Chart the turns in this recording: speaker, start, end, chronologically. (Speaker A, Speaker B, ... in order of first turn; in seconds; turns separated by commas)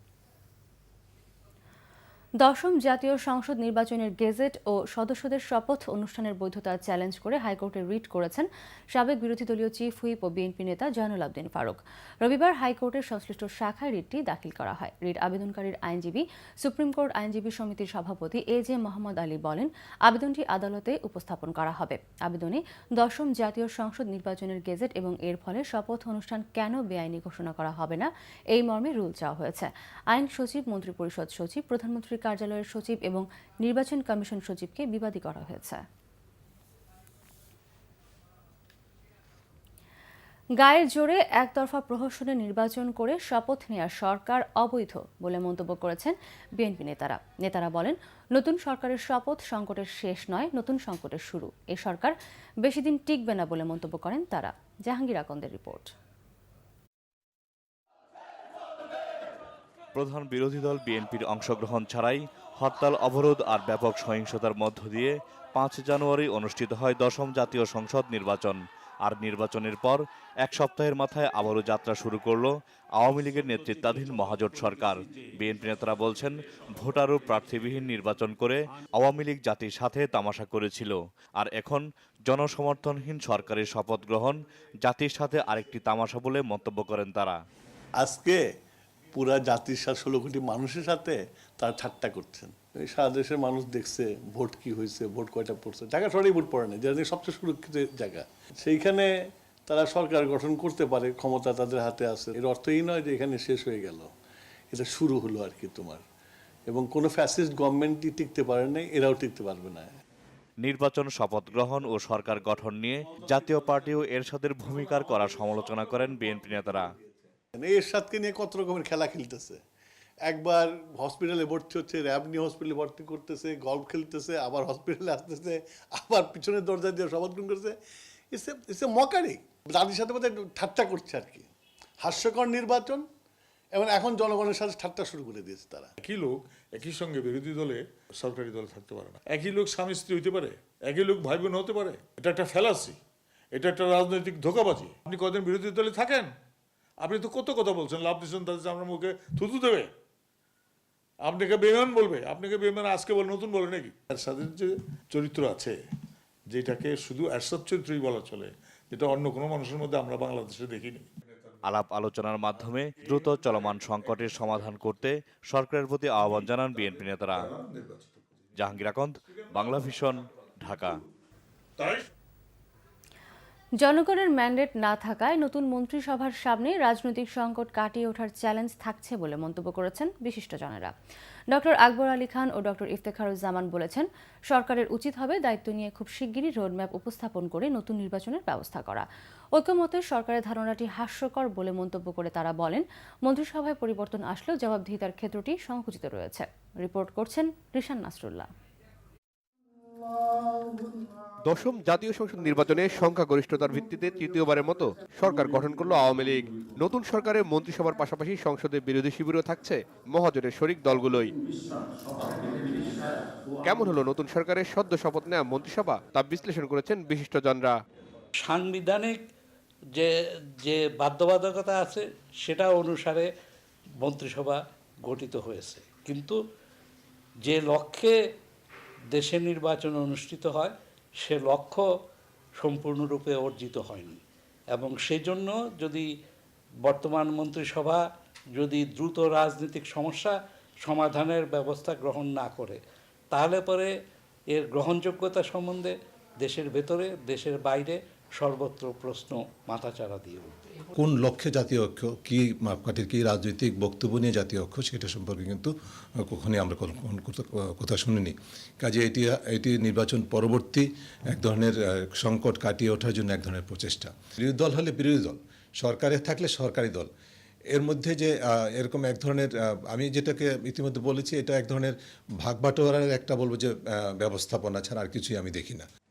Speaker A: 2.4-35.8, Speaker A: 40.6-55.9, Speaker B: 59.9-87.4, Speaker C: 88.0-88.4, Speaker C: 89.1-99.1, Speaker C: 99.7-104.1, Speaker C: 104.7-106.0, Speaker C: 106.7-109.9, Speaker B: 110.6-116.8, Speaker C: 117.5-119.6, Speaker C: 120.2-127.8, Speaker C: 128.3-131.5, Speaker C: 132.0-133.1, Speaker C: 133.7-135.9, Speaker D: 136.0-143.0, Speaker D: 143.5-146.3, Speaker D: 147.0-149.9, Speaker D: 151.2-155.8, Speaker D: 156.5-161.1, Speaker B: 161.6-167.5, Speaker D: 163.0-163.6, Speaker D: 167.5-168.1, Speaker B: 168.6-171.0, Speaker D: 171.8-172.0, Speaker A: 173.8-180.9, Speaker A: 181.5-198.5, Speaker E: 201.4-211.3, Speaker E: 213.6-217.8, Speaker F: 218.4-219.2, Speaker F: 219.9-223.3, Speaker F: 224.0-226.4, Speaker F: 227.4-228.2, Speaker F: 229.1-231.8, Speaker F: 232.6-234.2, Speaker F: 234.7-236.1, Speaker F: 236.8-238.0, Speaker F: 238.6-242.8, Speaker F: 243.3-243.9, Speaker F: 244.5-250.8, Speaker G: 250.9-267.1, Speaker G: 267.7-275.9